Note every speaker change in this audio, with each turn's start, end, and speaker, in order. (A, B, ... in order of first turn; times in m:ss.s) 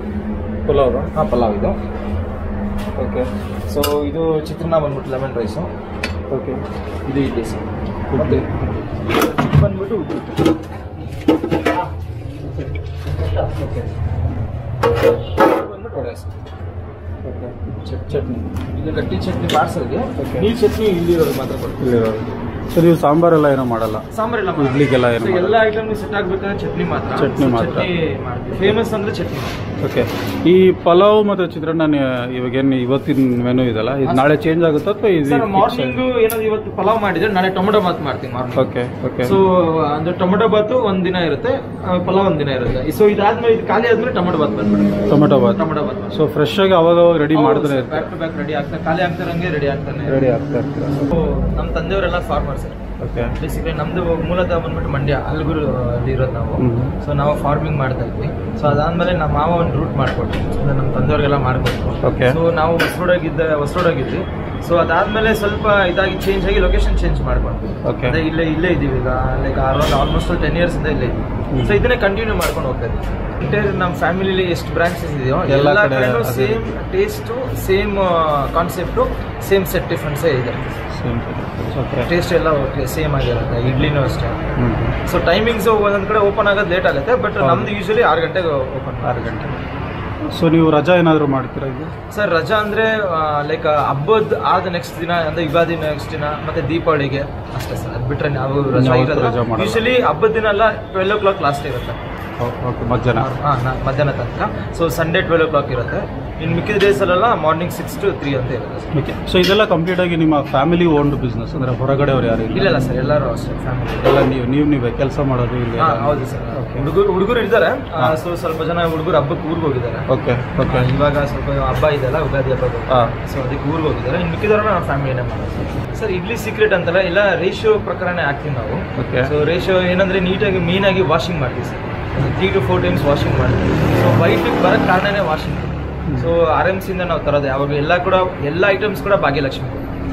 0:00.6-0:01.1 A
0:01.1-0:01.8 B
0:03.0-0:03.2 A
0:03.7-0:05.7 B
0:06.3-0:06.6 A
0:07.0-0:08.4 B
0:08.1-0:08.8 A
0:09.0-0:10.4 B
0:13.6-0:13.9 A
0:15.3-0:16.3 B
0:17.2-0:18.4 A
0:18.7-0:21.8 B
0:20.2-0:20.5 A
0:21.8-0:24.0 A
0:24.1-0:29.5 B
0:24.6-0:25.6 A
0:27.2-0:27.9 A
0:29.8-0:36.0 A
0:35.2-0:38.6 B
0:38.6-0:39.4 A
0:39.2-0:46.2 B
0:45.1-0:45.6 A
0:46.1-0:48.1 A
0:47.3-0:50.2 B
0:50.1-0:51.1 A
0:51.1-0:52.8 B
0:53.0-0:53.3 A
0:53.4-1:20.8 B
0:56.6-0:56.9 A
1:02.0-1:02.4 A
1:07.8-1:08.2 A
1:11.5-1:11.8 A
1:15.5-1:16.6 A
1:20.9-1:22.1 A
1:22.0-1:24.4 B
1:24.6-1:24.9 A
1:25.0-1:29.6 B
1:27.4-1:27.7 A
1:29.0-1:29.5 A
1:30.3-1:31.9 A
1:32.1-1:42.0 B
1:38.7-1:39.8 A
1:42.4-1:43.3 A
1:43.2-1:48.9 B
1:48.9-1:52.7 A
1:52.5-1:54.1 B
1:54.0-1:56.8 A
1:55.8-2:00.0 B
2:00.1-2:00.9 A
2:00.6-2:19.9 B
2:09.0-2:09.3 A